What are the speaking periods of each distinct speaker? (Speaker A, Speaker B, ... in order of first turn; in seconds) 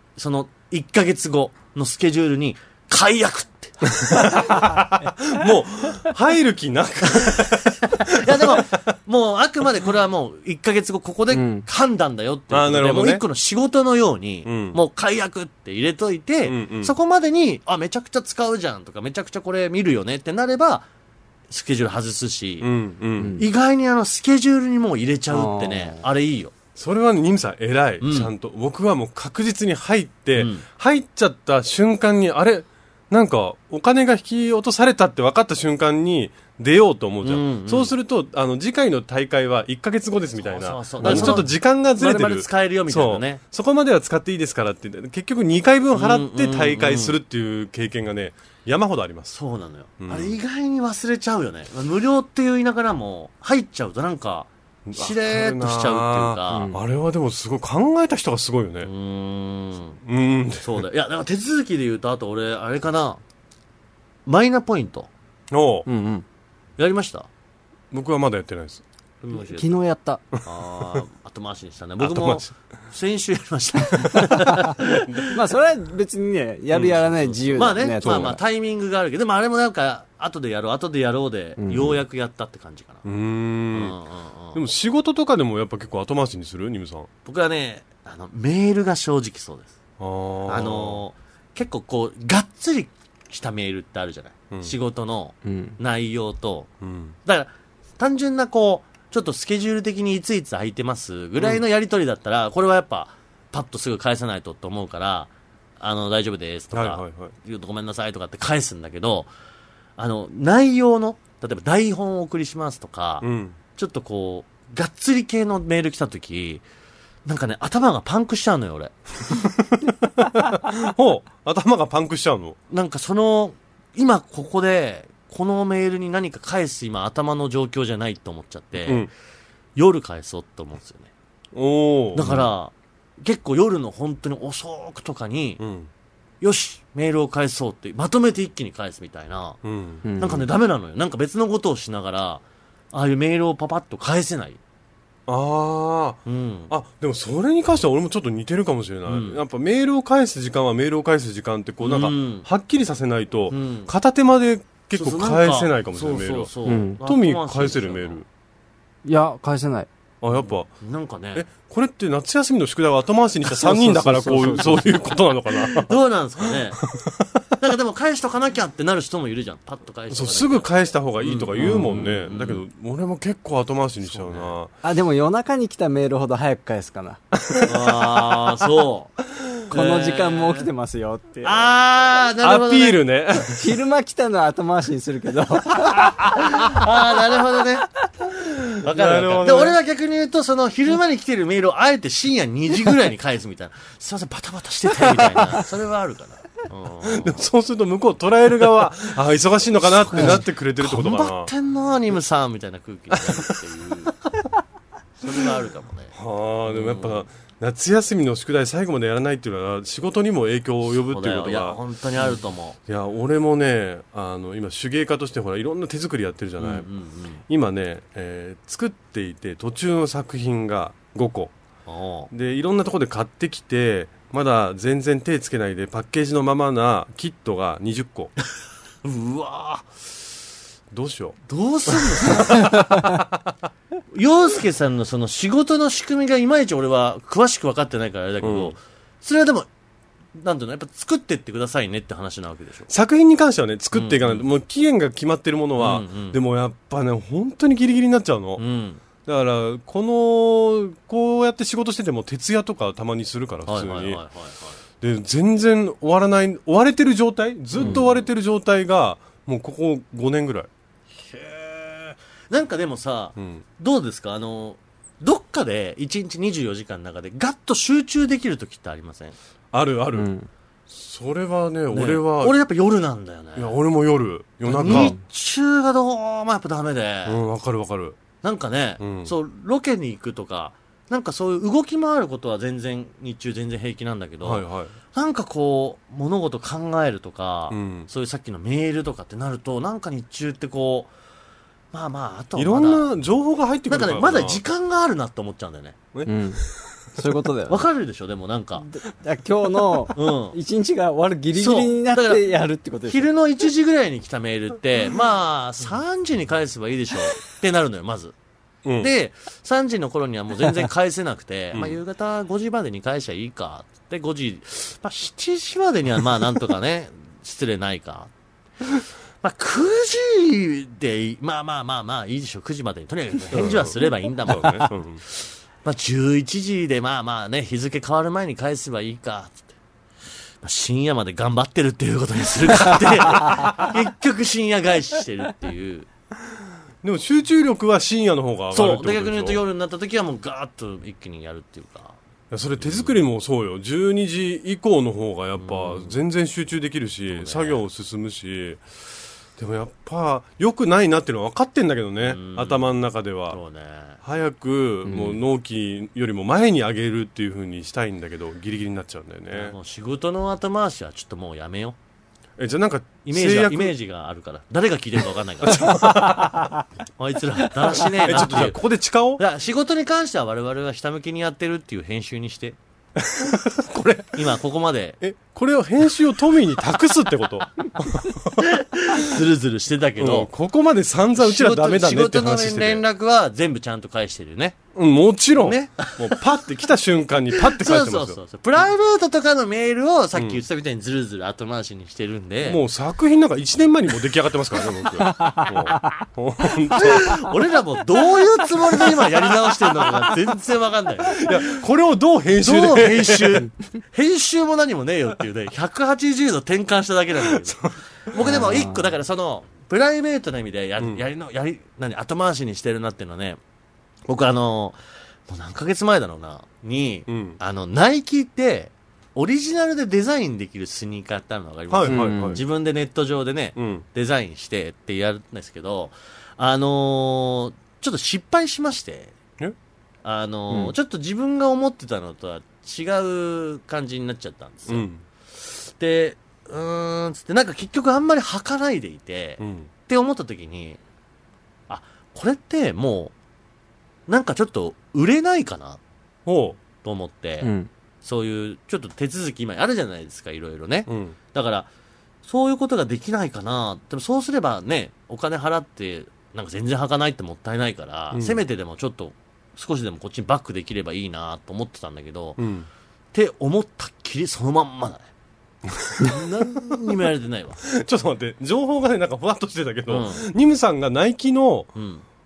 Speaker A: 0.2-4.0, 8.0-20.9, 21.5-22.7, 23.4-26.5, 28.0-28.3, 30.4-30.6, 37.2-37.9, 40.4-43.4, 45.9-47.2, 49.3-56.7, 58.8-60.0, 60.6-63.2, 64.2-65.1, 66.8-67.3, 69.2-69.7, 70.4-75.4, 76.7-83.0, 83.7-84.6, 87.2-89.8, 90.5-96.7, 97.2-109.3, 110.0-116.6, 117.2-118.9, 122.7-129.1, 129.8-131.1, 132.1-135.6, 136.4-139.6, 140.2-144.6, 146.2-146.7, 149.1-149.4, 151.8-152.5, 153.5-153.9, 154.9-158.2, 160.4-161.5, 165.5-166.8, 167.6-172.6, 174.0-174.5, 177.6-180.7, 181.4-183.0, 186.3-187.9, 188.8-197.4, 199.9-204.1, 205.2-206.1, 206.7-207.2, 210.9-212.8, 216.6-217.4, 221.9-222.3, 229.0-229.9, 231.5-233.0, 234.1-239.7, 240.4-242.9, 243.9-244.4, 245.8-246.4, 248.6-249.0, 253.7-254.8, 257.8-258.2, 261.1-269.4, 271.9-273.8, 274.6-277.4, 278.4-291.1, 291.9-293.1, 293.9-296.0, 297.7-298.9, 300.1-300.6, 301.5-302.4, 303.1-308.3, 309.0-318.3, 319.4-329.7, 330.6-336.1, 338.7-342.2, 342.8-343.2, 345.6-346.1, 347.3-347.8, 352.2-352.9, 353.5-354.2, 359.5-362.0, 363.2-366.2, 367.2-368.8, 369.4-372.8, 374.3-375.2, 378.6-380.5, 381.4-384.8, 385.6-386.4, 387.5-392.8, 396.9-401.8, 402.6-413.6, 414.3-429.4, 430.2-441.0, 441.9-443.3, 444.3-446.0, 447.0-447.7, 448.2-451.9, 452.4-462.6, 463.3-465.3, 466.2-467.8, 470.1-470.4, 471.9-472.2
Speaker B: 3.9-8.8, 12.5-13.2, 14.5-14.8, 16.4-16.9, 22.6-23.4, 26.8-49.3, 50.0-50.4, 54.9-58.9, 60.0-60.9, 65.5-65.9, 67.9-68.8, 72.0-72.5, 78.0-78.4, 83.0-84.0, 84.5-87.1, 90.0-91.0, 96.8-97.1, 106.7-107.3, 113.2-113.6, 119.3-122.6, 131.5-132.5, 135.6-135.9, 139.6-140.0, 145.3-156.5, 157.0-158.2, 160.2-160.7, 161.3-167.5, 170.1-174.7, 177.4-178.1, 182.4-183.8, 188.4-189.8, 197.0-201.5, 203.1-203.6, 206.1-211.8, 212.9-216.9, 217.5-221.5, 222.3-228.3, 230.9-231.4, 231.9-233.3, 238.4-238.8, 242.9-248.6, 249.2-254.2, 255.0-260.7, 269.7-270.3, 270.9-272.6, 273.6-275.1, 277.2-278.2, 279.0-279.3, 284.4-284.9, 287.7-288.1, 292.6-294.6, 296.1-296.9, 308.9-309.1, 311.7-312.0, 323.5-325.2, 337.0-339.6, 342.5-348.8, 349.6-353.6, 354.2-359.8, 362.6-363.9, 365.6-366.7, 368.1-369.4, 373.2-374.4, 375.2-378.6, 380.2-383.0, 384.9-388.4, 390.4-390.6, 392.6-397.4, 399.0-400.3, 401.3-403.6, 407.4-407.9, 417.3-417.6, 421.9-422.6, 423.8-424.0, 434.9-435.2, 439.6-439.9, 446.5-446.8, 451.1-451.4, 458.3-458.6, 462.6-462.9, 465.9-466.4, 467.8-471.9
Speaker C: 11.3-11.7, 23.2-23.4, 25.3-26.0, 41.0-41.4, 56.5-56.8, 65.9-66.2, 69.3-70.2, 75.3-78.4, 81.6-82.0, 95.4-95.8, 140.0-140.5, 156.7-157.0, 159.0-159.9, 163.6-165.0, 171.6-172.1, 174.8-177.2, 179.7-181.6, 183.5-186.3, 270.1-270.5, 274.9-275.2, 296.2-297.9, 298.8-303.3, 355.0-355.4, 395.2-396.1, 408.5-409.0, 422.1-422.6, 447.6-447.9